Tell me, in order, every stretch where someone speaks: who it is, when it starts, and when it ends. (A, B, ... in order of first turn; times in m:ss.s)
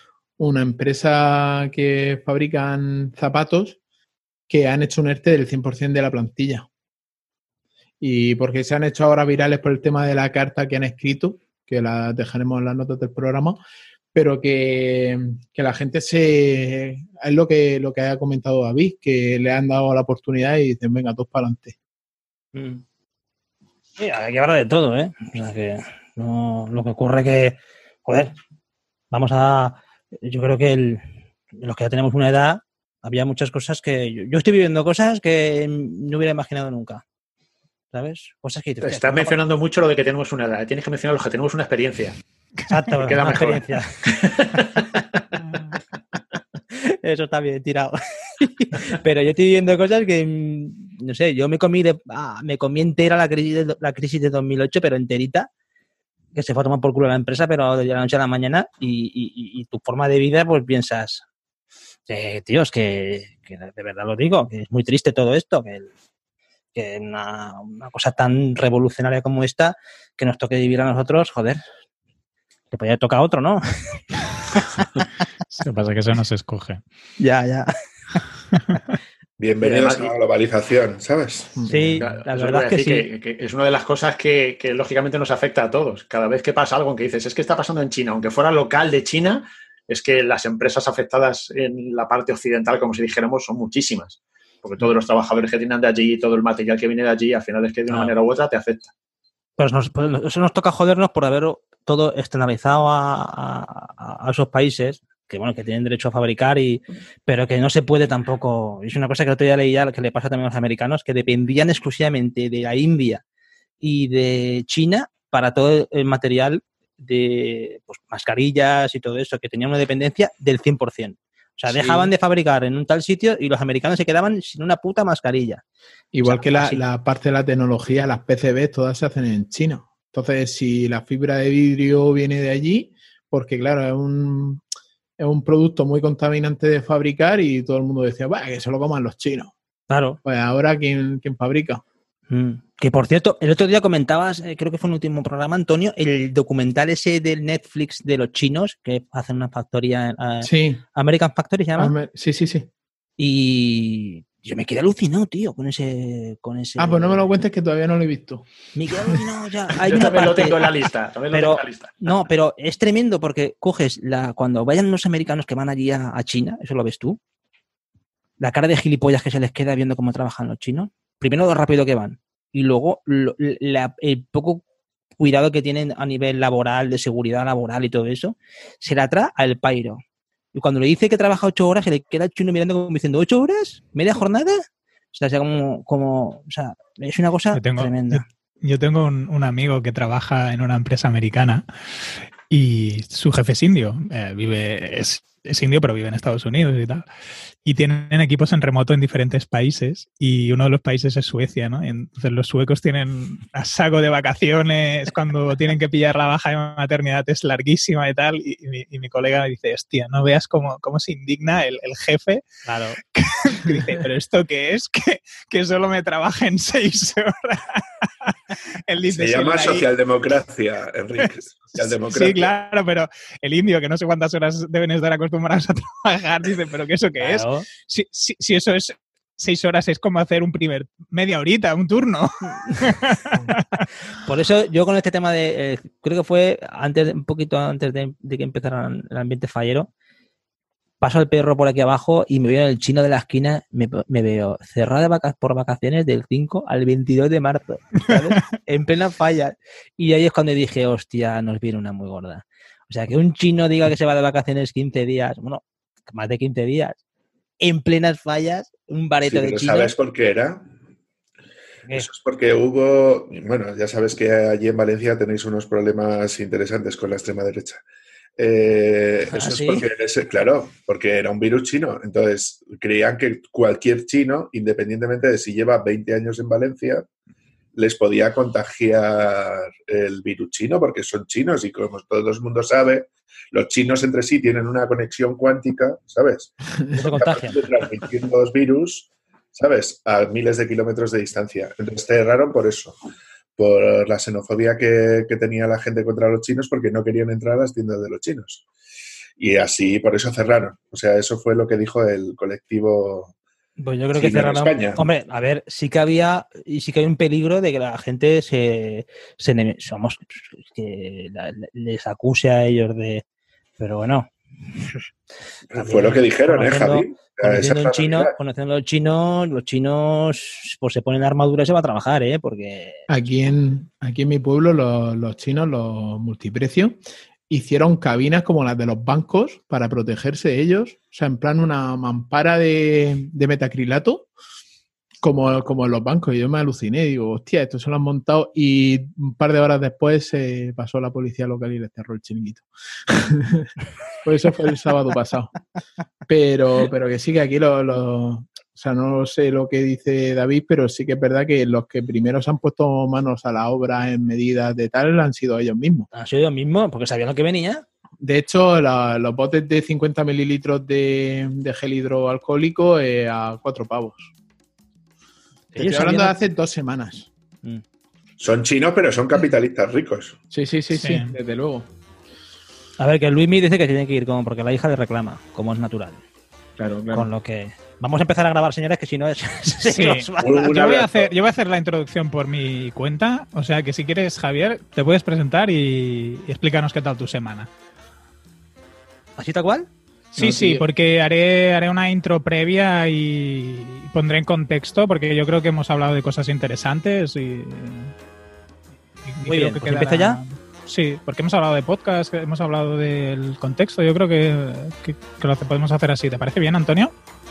0:00.4-0:03.8 A
0:04.5-0:06.7 A
0:08.0-0:13.6 A
0:14.1-0:21.8 A
0:22.5-0:22.8 B
0:24.0-0:28.3 B
0:29.1-0:37.0 B
0:37.9-0:39.4 B
0:38.8-0:42.2 C
0:42.7-0:44.3 B
0:43.0-0:45.2 C
0:46.7-0:55.5 B
0:56.3-1:01.2 B
1:02.1-1:05.9 B
1:06.7-1:11.6 B
1:12.7-1:15.1 B
1:15.5-1:16.8 D
1:17.2-1:18.2 B
1:18.5-1:18.8 D
1:19.4-1:21.6 E
1:19.6-1:20.1 C
1:21.6-1:22.0 A
1:21.7-1:23.1 B
1:22.0-1:38.9 C
1:37.9-1:38.1 B
1:39.6-1:53.2 B
1:53.8-2:05.6 B
2:01.7-2:02.1 A
2:06.1-2:14.6 A
2:06.2-2:06.8 B
2:15.2-2:19.5 A
2:19.9-2:20.2 B
2:20.2-2:21.8 A
2:22.3-2:32.0 B
2:30.4-2:30.8 A
2:31.8-2:32.7 A
2:33.2-2:37.3 B
2:36.8-2:38.5 A
2:38.7-2:40.7 B
2:39.8-2:42.2 C
2:41.3-2:47.2 B
2:48.4-2:54.6 B
2:55.2-3:00.0 B
3:00.5-3:08.2 B
3:07.5-3:17.0 D
3:17.6-3:32.4 D
3:32.6-3:33.0 B
3:33.1-3:39.9 D
3:39.1-3:42.5 E
3:41.2-3:53.8 D
3:47.2-3:47.7 B
3:54.2-3:59.9 B
4:01.0-4:17.0 B
4:17.6-4:19.9 B
4:19.3-4:20.7 E
4:22.0-4:27.8 E
4:28.4-4:37.1 E
4:29.3-4:29.8 B
4:37.8-4:53.0 E
4:46.9-4:47.6 B
4:53.6-4:58.7 E
4:59.4-5:03.3 E
5:03.8-5:13.2 B
5:04.2-5:05.0 E
5:13.8-5:14.3 B
5:15.7-5:18.3 E
5:15.8-5:23.1 B
5:23.1-5:27.0 A
5:27.5-5:34.3 A
5:35.2-5:43.7 A
5:44.2-5:45.5 A
5:46.3-5:56.1 A
5:56.1-5:57.8 B
5:58.2-6:04.3 A
6:05.7-6:06.4 B
6:05.8-6:07.3 A
6:08.4-6:10.4 E
6:10.5-6:11.9 A
6:10.9-6:11.4 D
6:13.0-6:16.2 B
6:16.8-6:17.3 A
6:17.1-6:20.8 B
6:19.9-6:27.7 D
6:20.4-6:21.3 E
6:29.4-6:29.9 B
6:30.3-6:38.1 D
6:30.4-6:30.8 A
6:39.3-6:47.1 D
6:39.4-6:40.4 B